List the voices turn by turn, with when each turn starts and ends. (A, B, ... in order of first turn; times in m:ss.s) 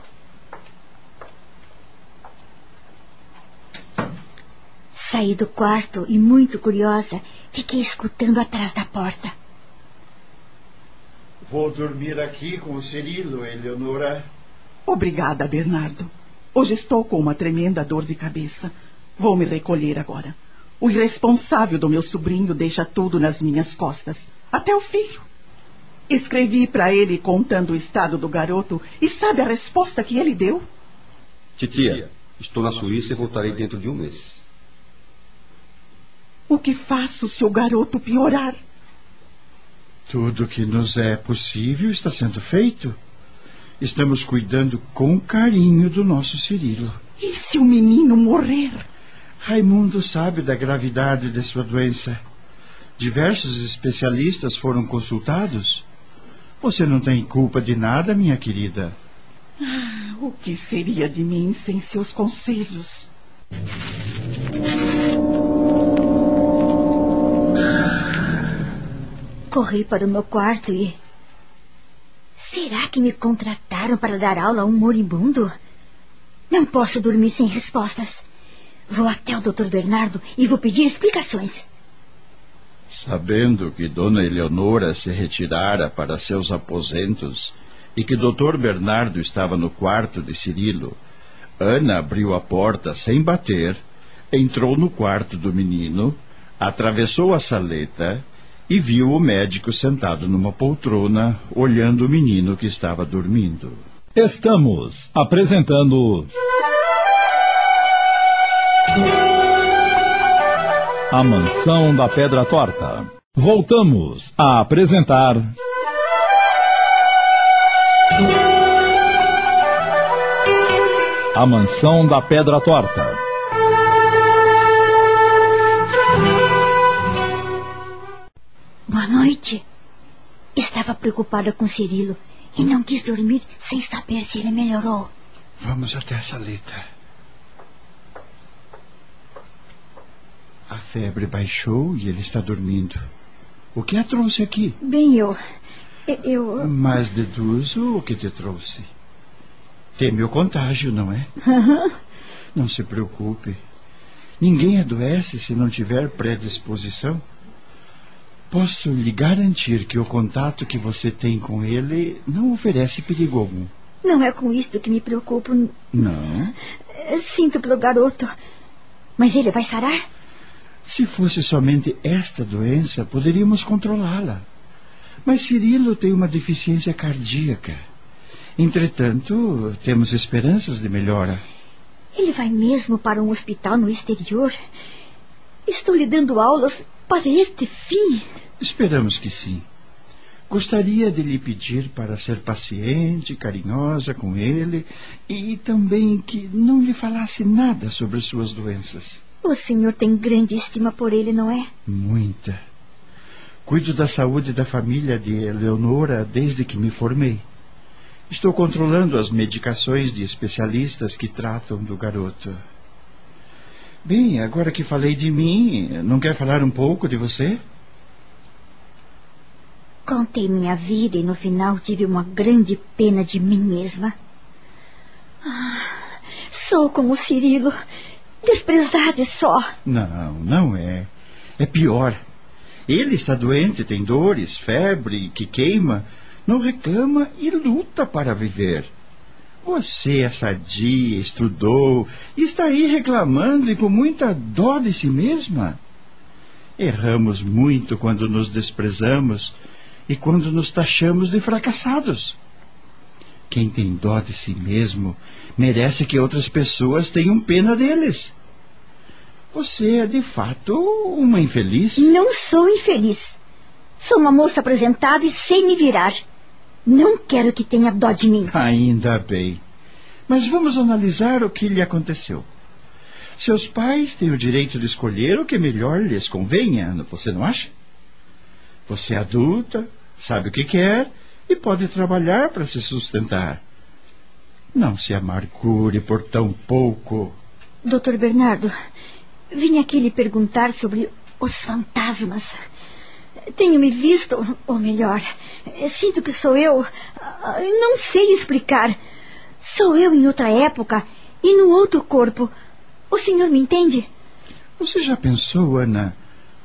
0:05.0-0:09.3 A
0:11.5-0:14.2 B
0:14.8-0:25.2 C
0:26.1-0:30.6 C
0:31.6-0:34.4 D
0:36.5-0:38.6 C
0:40.1-0:43.0 B
0:43.8-0:47.0 B
0:47.2-0:48.9 C
0:49.4-0:52.2 B
0:53.0-0:55.8 B
0:56.6-0:58.9 B
0:59.6-1:03.1 C
1:09.5-1:10.9 A
1:12.4-1:15.5 A
1:16.5-1:18.2 A
1:18.9-1:21.6 A
1:22.9-1:31.0 B
1:31.6-1:33.8 B
1:34.3-1:43.8 B
1:44.2-1:46.3 E
1:51.1-1:55.4 E
2:01.3-2:03.2 E
2:08.9-2:09.6 A
2:10.6-2:15.1 A
2:15.6-2:16.8 B
2:20.7-2:23.0 B
2:23.7-2:24.8 B
2:24.8-2:25.4 A
2:26.1-2:26.7 A
2:26.6-2:28.9 B
2:30.0-2:31.3 B
2:32.5-2:33.6 B
2:34.4-2:37.2 B
2:38.5-2:43.7 B
2:44.0-2:45.8 A
2:45.9-2:46.6 B
2:46.9-2:48.3 A
2:49.2-2:50.0 A
2:50.8-2:54.4 B
2:55.2-2:57.8 B
2:58.6-3:01.4 B
3:02.2-3:04.5 A
3:05.7-3:08.2 A
3:08.6-3:09.6 B
3:10.5-3:19.2 B
3:19.4-3:21.7 A
3:21.8-3:22.6 B
3:23.6-3:27.4 B
3:28.3-3:32.6 B
3:34.0-3:37.6 B
3:40.1-3:44.1 A
3:45.4-3:47.7 A
3:48.4-3:49.6 A
3:49.8-3:52.2 B
3:52.9-3:58.9 B
3:59.6-4:05.8 B
4:06.8-4:09.6 B
4:10.1-4:12.4 B
4:13.5-4:18.3 B
4:19.5-4:22.1 B
4:22.0-4:23.3 A
4:24.0-4:26.2 A
4:26.8-4:28.5 A
4:28.5-4:29.6 B
4:30.3-4:32.4 B
4:33.4-4:37.7 B
4:38.9-4:43.6 B
4:44.7-4:47.3 B
4:47.8-4:48.7 A
4:49.5-4:52.5 A
4:53.5-4:59.0 A
4:59.6-5:02.5 A
5:03.1-5:04.1 A
5:04.8-5:06.1 B